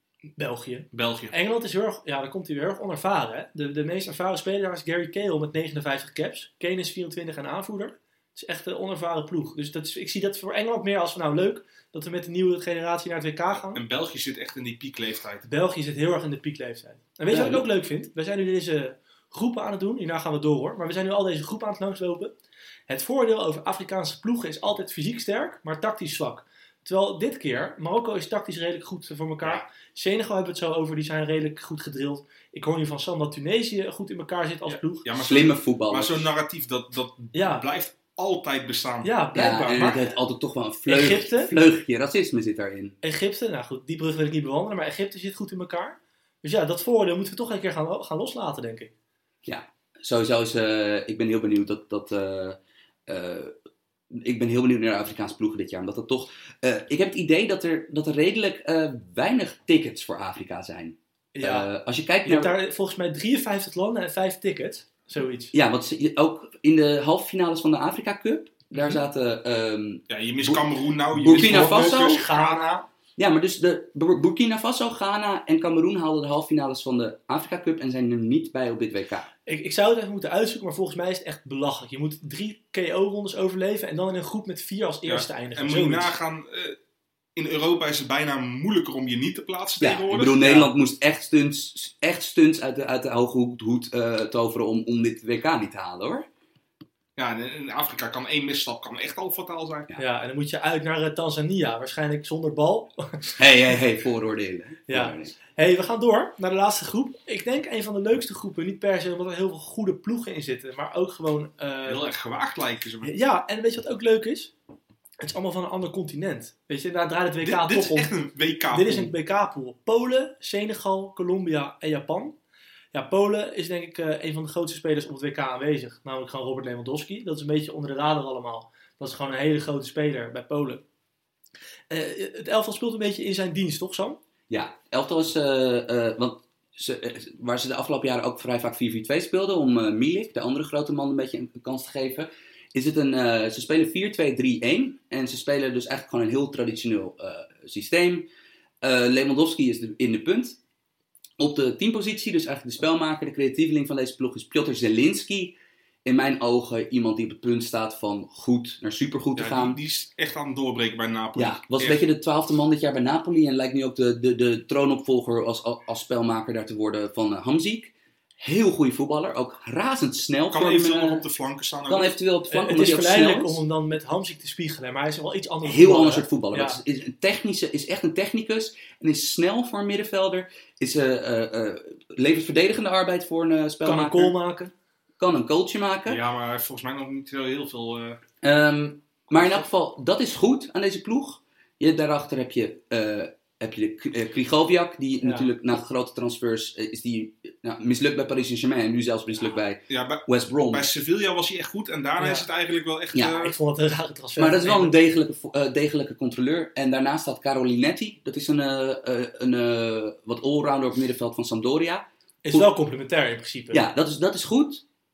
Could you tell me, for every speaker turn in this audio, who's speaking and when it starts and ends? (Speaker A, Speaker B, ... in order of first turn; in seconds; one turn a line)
Speaker A: 0.4-13.8
Speaker B: 0.9-1.3
Speaker B: 13.7-15.5
Speaker A: 15.4-22.3
Speaker C: 17.3-17.6
Speaker A: 22.9-35.1
Speaker B: 34.6-39.1
Speaker C: 35.1-36.3
Speaker A: 37.3-37.6
Speaker A: 39.0-40.0
Speaker C: 39.3-43.0
Speaker A: 40.9-41.5
Speaker A: 43.0-48.9
Speaker C: 49.4-53.5
Speaker C: 54.1-62.5
Speaker A: 61.3-61.7
Speaker A: 62.2-65.5
Speaker C: 65.5-72.2
Speaker B: 70.1-72.6
Speaker A: 71.2-72.9
Speaker C: 73.2-79.3
Speaker A: 79.5-86.1
Speaker B: 85.0-86.8
Speaker B: 87.4-90.4
Speaker C: 89.8-96.3
Speaker A: 90.4-90.7
Speaker B: 97.2-99.9
Speaker A: 100.0-103.4
Speaker C: 103.4-105.3
Speaker A: 104.9-112.0
Speaker B: 111.9-113.1
Speaker A: 113.0-114.5
Speaker A: 115.2-118.1
Speaker B: 117.4-119.1
Speaker A: 118.7-122.3
Speaker A: 122.9-130.8
Speaker A: 131.9-134.2
Speaker C: 134.5-148.3
Speaker C: 148.8-150.6
Speaker C: 151.4-159.8
Speaker B: 159.3-162.0
Speaker C: 161.4-171.2
Speaker B: 170.5-172.2
Speaker C: 171.9-173.6
Speaker A: 172.5-176.8
Speaker C: 175.6-184.3
Speaker A: 183.8-184.7
Speaker C: 185.2-186.2
Speaker B: 186.1-188.2
Speaker C: 188.4-200.9
Speaker A: 195.2-195.5
Speaker B: 199.9-203.5
Speaker A: 202.2-202.4
Speaker A: 203.2-204.9
Speaker C: 204.4-212.7
Speaker A: 212.4-213.8
Speaker C: 213.7-214.8